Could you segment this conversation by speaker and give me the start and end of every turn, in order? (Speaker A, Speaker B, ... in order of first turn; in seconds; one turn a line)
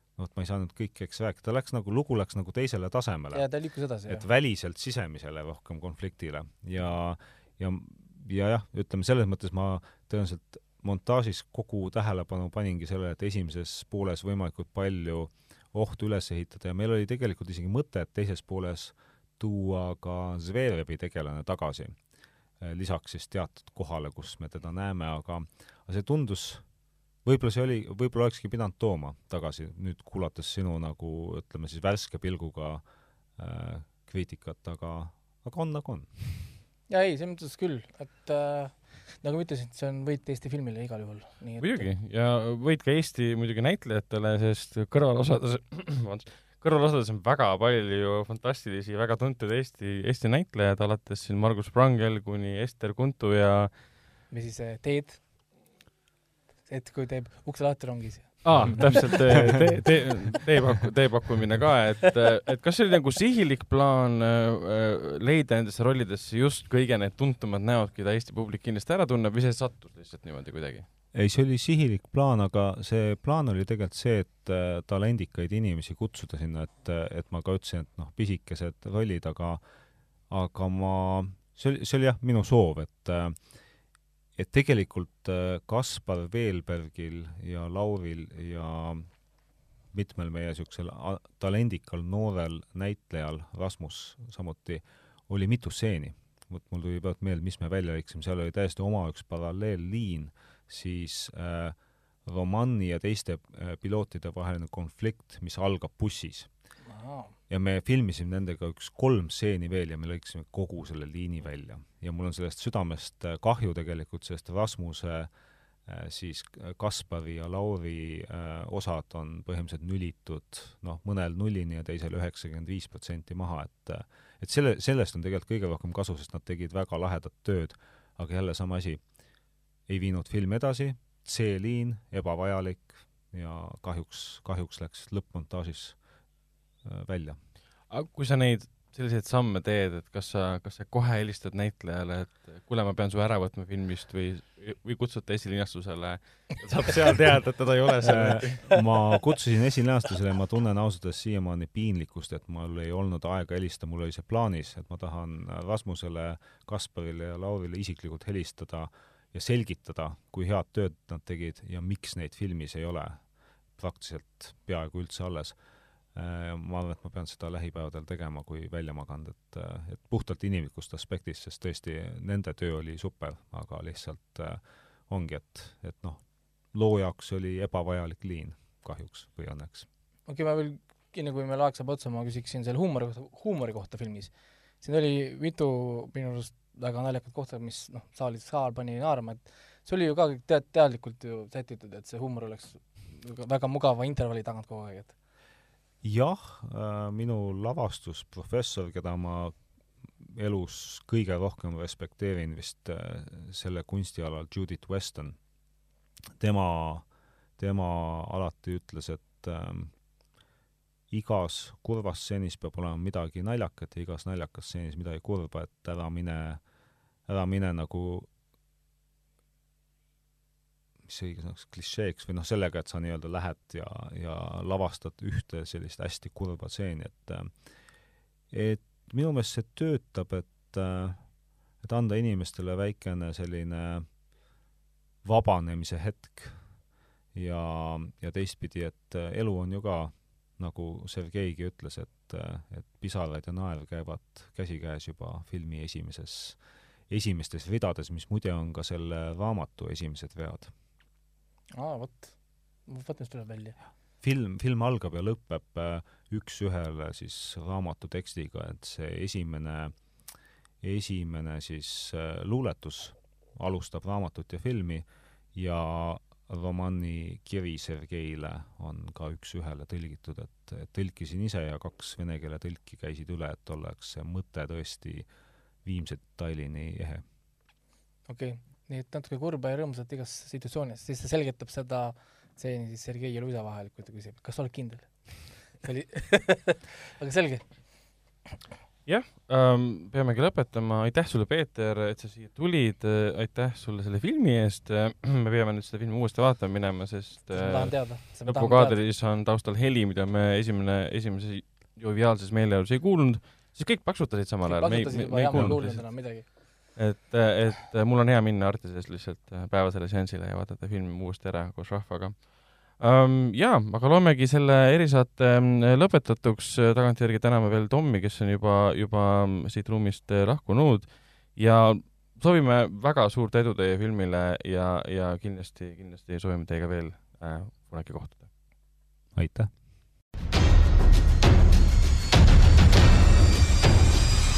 Speaker A: 0.1-3.5
Speaker B: 3.3-4.2
Speaker A: 4.1-22.0
Speaker A: 22.6-26.6
Speaker A: 27.2-32.8
Speaker A: 33.4-36.5
Speaker B: 36.9-41.9
Speaker C: 41.6-53.7
Speaker B: 54.3-55.2
Speaker B: 56.6-59.5
Speaker C: 58.4-70.9
Speaker A: 71.1-79.6
Speaker A: 80.3-83.5
Speaker A: 84.3-89.1
Speaker A: 89.9-106.5
Speaker B: 106.8-107.3
Speaker A: 107.5-115.3
Speaker A: 115.8-129.1
Speaker A: 129.9-136.1
Speaker A: 136.8-137.4
Speaker C: 137.9-148.8
Speaker A: 148.0-165.6
Speaker A: 166.1-179.9
Speaker B: 180.3-195.1
Speaker A: 196.0-199.6
Speaker A: 200.1-205.4
Speaker A: 206.4-207.1
Speaker A: 207.6-209.9
Speaker A: 211.1-216.6
Speaker A: 217.2-218.3
Speaker A: 221.1-227.6
Speaker A: 228.5-234.1
Speaker A: 235.2-236.6
Speaker A: 237.3-250.7
Speaker B: 251.7-253.8
Speaker A: 254.2-259.9
Speaker A: 260.8-275.3
Speaker A: 275.8-277.2
Speaker B: 278.3-288.4
Speaker C: 289.1-328.5
Speaker B: 297.5-299.0
Speaker B: 304.6-306.5
Speaker A: 305.5-305.8
Speaker A: 329.3-329.7